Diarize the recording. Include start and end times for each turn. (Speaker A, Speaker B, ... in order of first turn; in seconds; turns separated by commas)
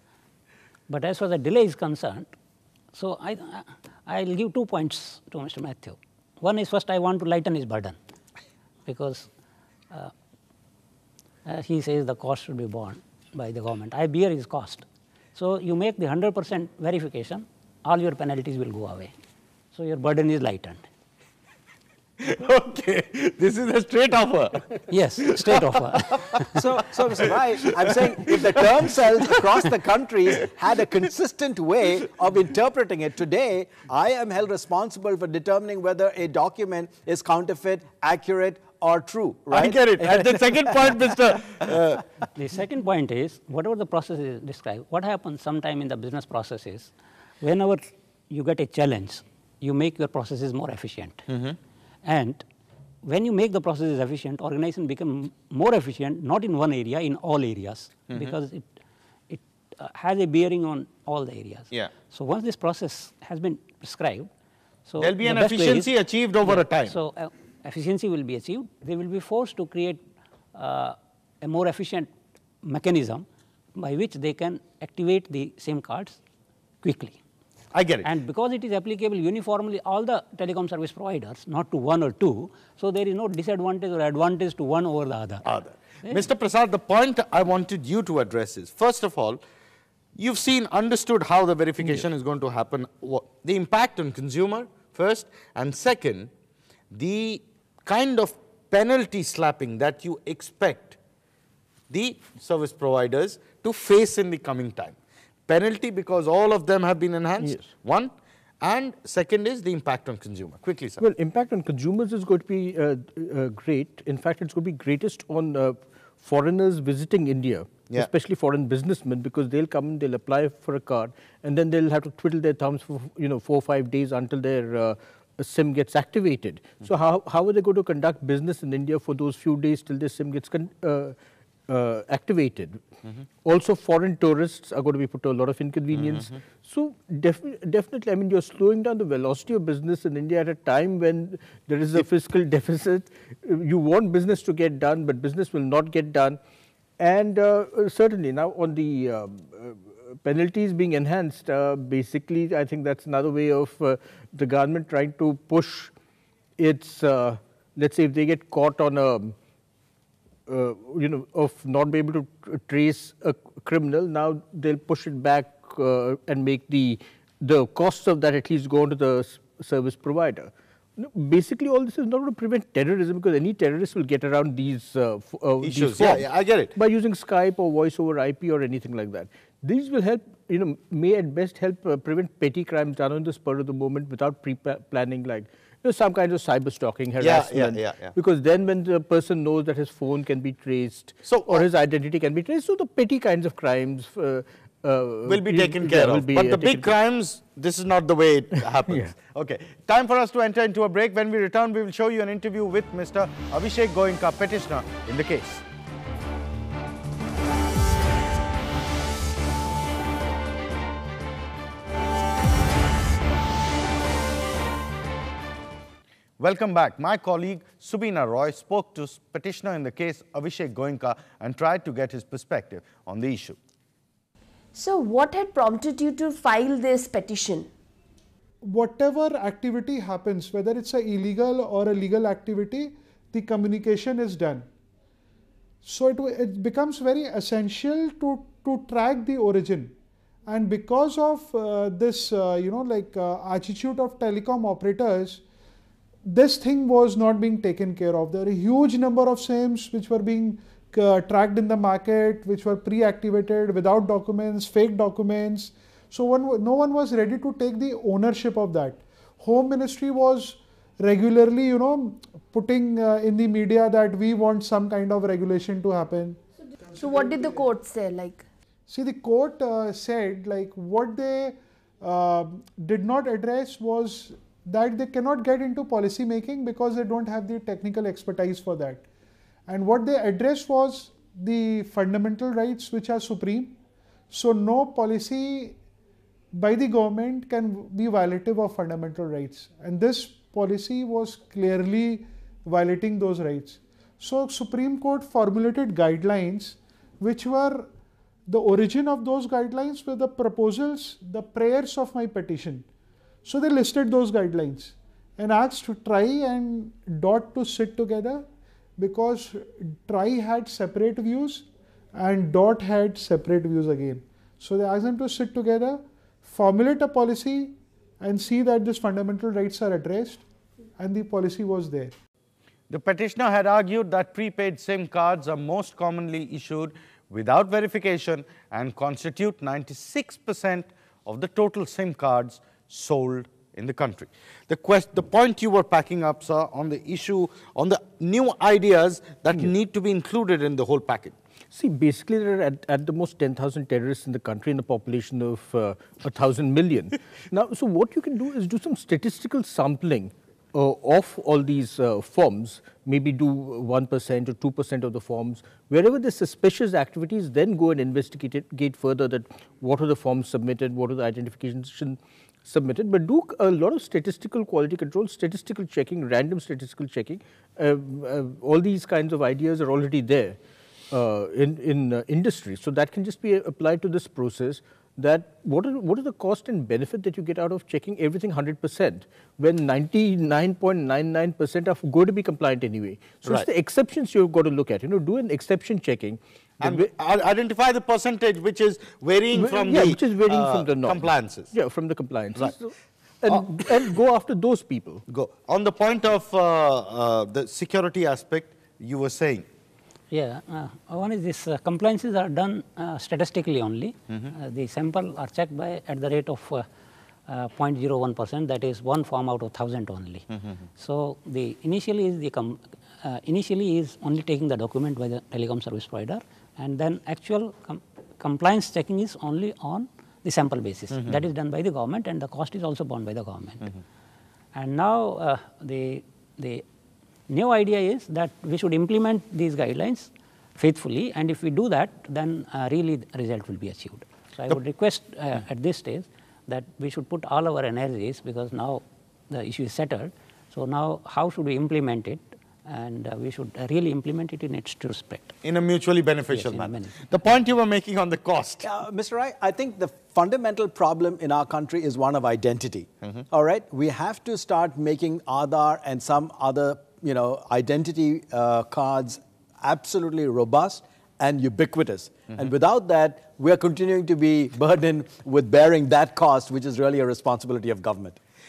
Speaker A: 0.9-2.3, Speaker A: 2.9-8.0, Speaker A: 8.8-9.3, Speaker A: 11.4-19.1, Speaker A: 19.7-20.8, Speaker B: 22.2-26.4, Speaker A: 24.9-26.6, Speaker C: 26.5-41.7, Speaker B: 27.1-29.1, Speaker B: 39.5-42.0, Speaker A: 42.3-51.2, Speaker B: 51.3-51.6, Speaker A: 52.0-52.4, Speaker A: 53.0-58.7, Speaker A: 59.3-64.3, Speaker A: 64.9-65.9, Speaker B: 65.0-66.9, Speaker A: 66.4-70.0, Speaker A: 70.5-72.1, Speaker A: 72.6-73.2, Speaker A: 73.8-76.2, Speaker A: 76.8-77.2, Speaker B: 77.7-78.1, Speaker A: 78.0-85.5, Speaker B: 85.4-89.4, Speaker B: 90.2-96.3, Speaker B: 96.9-101.0, Speaker B: 101.9-105.0, Speaker B: 105.5-111.0, Speaker D: 107.4-107.7, Speaker D: 111.0-131.1, Speaker D: 131.7-132.8, Speaker D: 133.4-146.4, Speaker B: 135.9-136.3, Speaker D: 147.0-155.9, Speaker D: 156.6-159.3, Speaker D: 160.5-196.9, Speaker B: 175.6-176.7, Speaker B: 187.2-188.1, Speaker B: 191.2-191.7, Speaker B: 195.2-205.6, Speaker D: 198.9-199.1, Speaker B: 216.4-223.6, Speaker E: 224.7-227.7, Speaker F: 228.7-234.6, Speaker F: 235.8-239.9, Speaker F: 240.5-245.4, Speaker F: 246.3-266.4, Speaker E: 266.9-268.4, Speaker F: 268.9-279.0, Speaker F: 279.7-283.7, Speaker F: 284.3-285.8, Speaker F: 286.6-297.8, Speaker F: 298.5-302.8, Speaker F: 303.4-308.4, Speaker F: 309.0-311.6, Speaker F: 312.2-320.4, Speaker F: 321.0-322.1, Speaker B: 322.9-341.3, Speaker D: 341.7-370.6, Speaker D: 371.1-387.1, Speaker B: 386.8-391.7, Speaker D: 389.5-395.2, Speaker B: 395.3-399.6, Speaker A: 400.3-406.8, Speaker A: 407.5-410.4, Speaker A: 411.0-423.9, Speaker A: 424.7-426.8, Speaker A: 427.5-445.5, Speaker B: 445.6-448.9, Speaker A: 446.5-447.1, Speaker C: 448.8-468.4